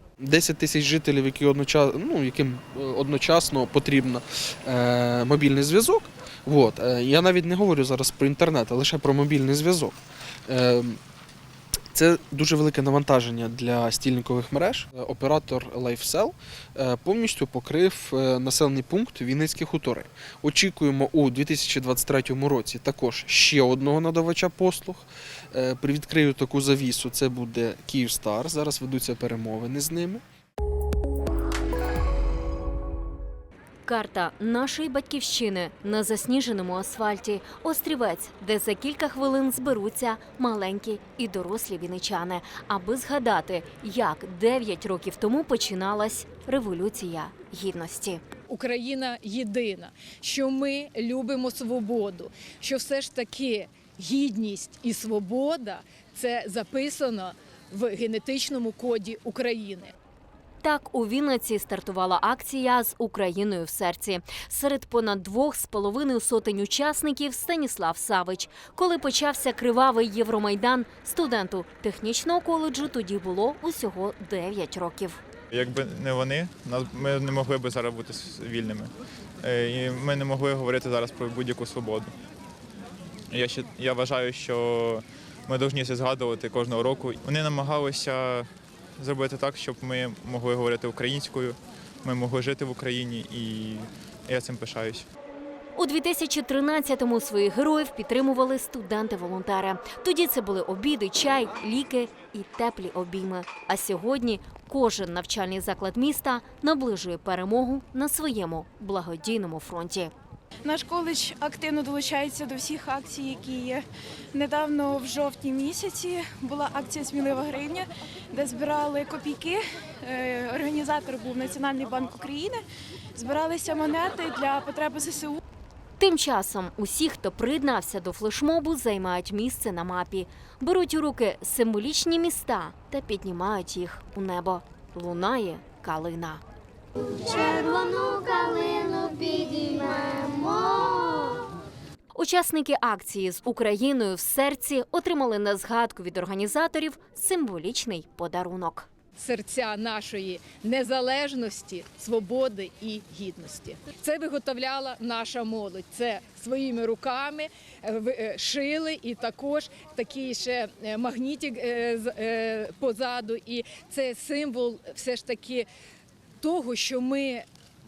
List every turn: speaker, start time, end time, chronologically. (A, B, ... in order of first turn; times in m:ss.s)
0:00.2-0:11.0 A
0:11.9-0:30.2 A
0:33.9-0:48.2 B
0:48.5-0:59.9 C
1:00.6-1:15.2 B
1:15.5-1:18.9 D
1:19.4-1:22.1 D
1:23.3-1:28.5 D
1:29.0-1:35.1 D
1:35.8-1:50.1 B
1:50.6-2:02.6 E
2:03.2-2:05.4 E
2:06.0-2:16.4 B
2:17.2-2:21.5 F
2:22.1-2:28.9 B
2:29.2-2:45.7 C
2:46.4-2:47.5 C